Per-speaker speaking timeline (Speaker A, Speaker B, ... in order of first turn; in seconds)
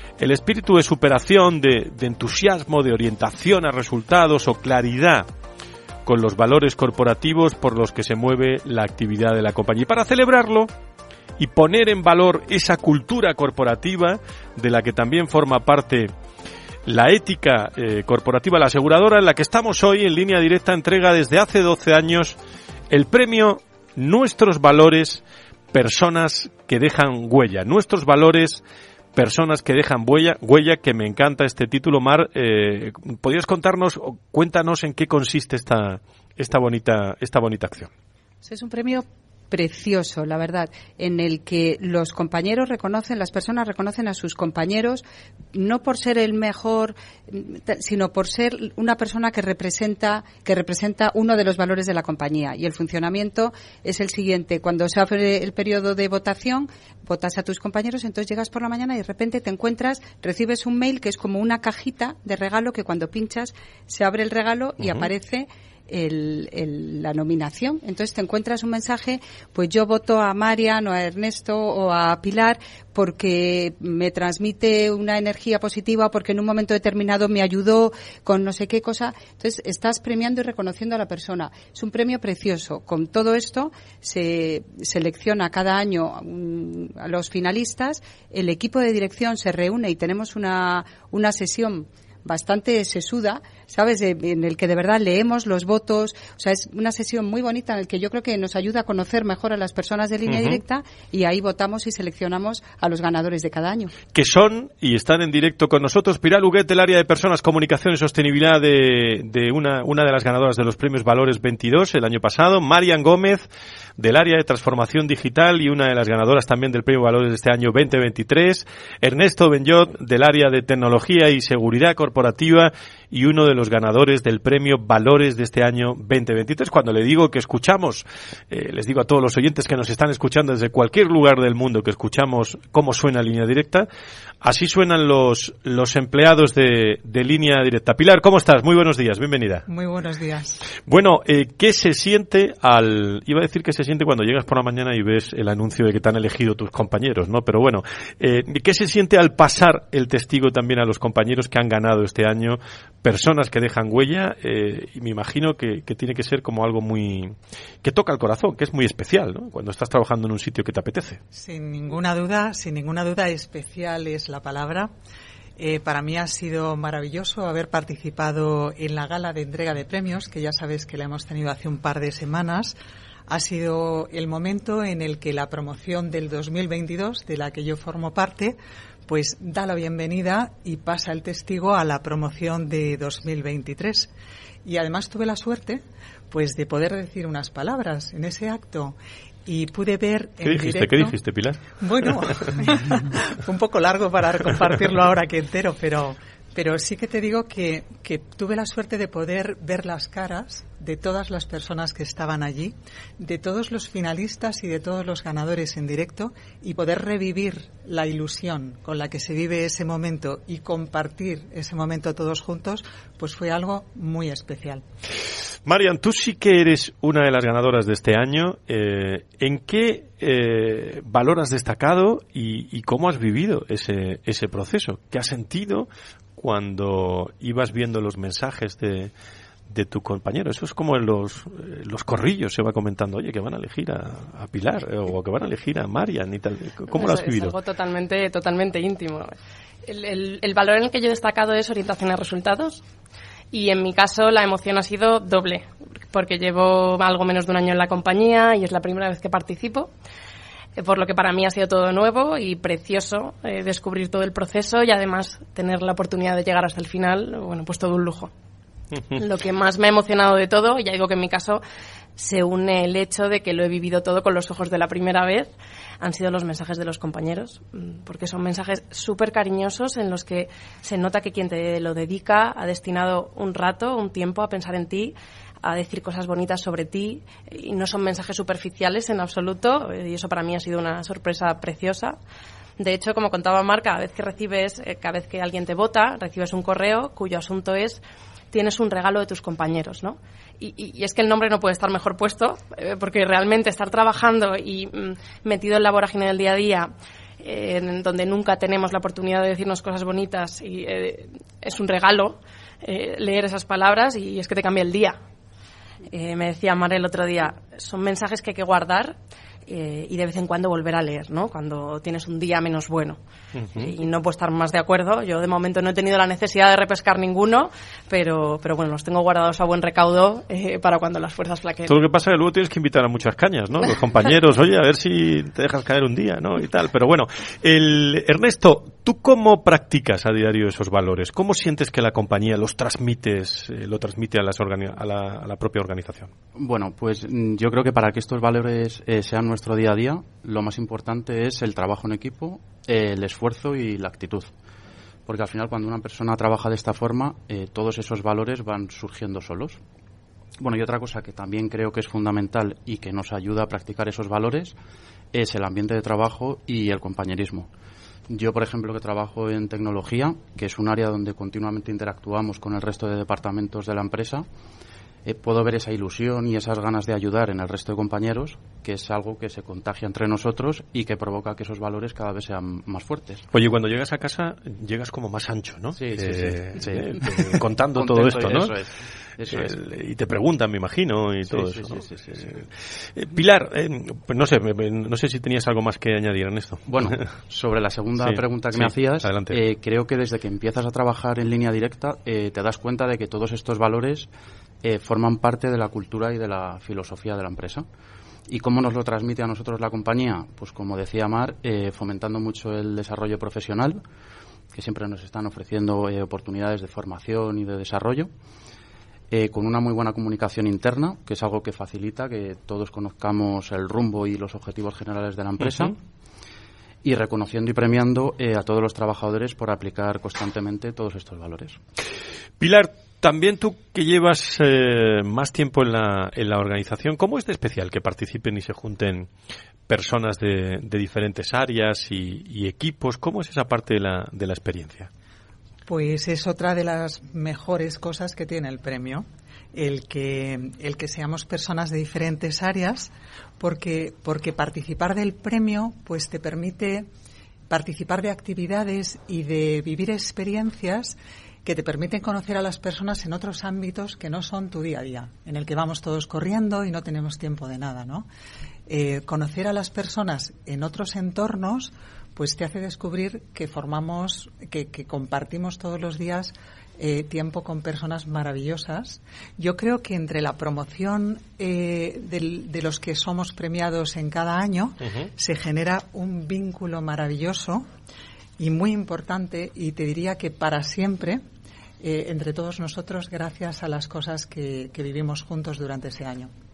Speaker A: 0.2-5.2, 6.0-10.7, 11.4-16.1, 16.9-22.4, 22.9-25.2, 25.7-28.6, 29.1-37.9, 100.3-100.6, 104.1-113.5, 114.0-133.9, 134.4-139.6, 140.8-161.2, 190.4-191.7, 215.7-229.1, 229.7-237.6, 313.6-313.9, 321.9-336.3, 373.5-378.8, 379.5-387.2, 388.2-389.6, 422.6-429.3, 429.9-435.1
Speaker B: 38.4-103.9
Speaker C: 139.7-140.6, 161.3-164.9, 165.6-172.8, 173.3-184.1, 184.6-191.2, 191.8-214.8, 435.9-447.1, 447.7-458.3, 458.9-477.9, 478.6-481.4, 482.0-486.5
Speaker D: 236.9-239.3, 239.8-242.8, 243.5-249.9, 250.8-258.3, 259.1-261.6, 262.2-282.2, 282.8-305.2, 306.1-313.2, 313.7-321.9
Speaker E: 336.5-344.5, 345.2-349.8, 350.6-354.8, 355.3-357.7, 358.3-364.5, 365.2-373.4, 375.9-379.8, 381.4-382.5, 386.9-394.3, 394.8-397.9, 398.5-404.0, 404.7-408.3, 409.3-416.0, 417.0-421.8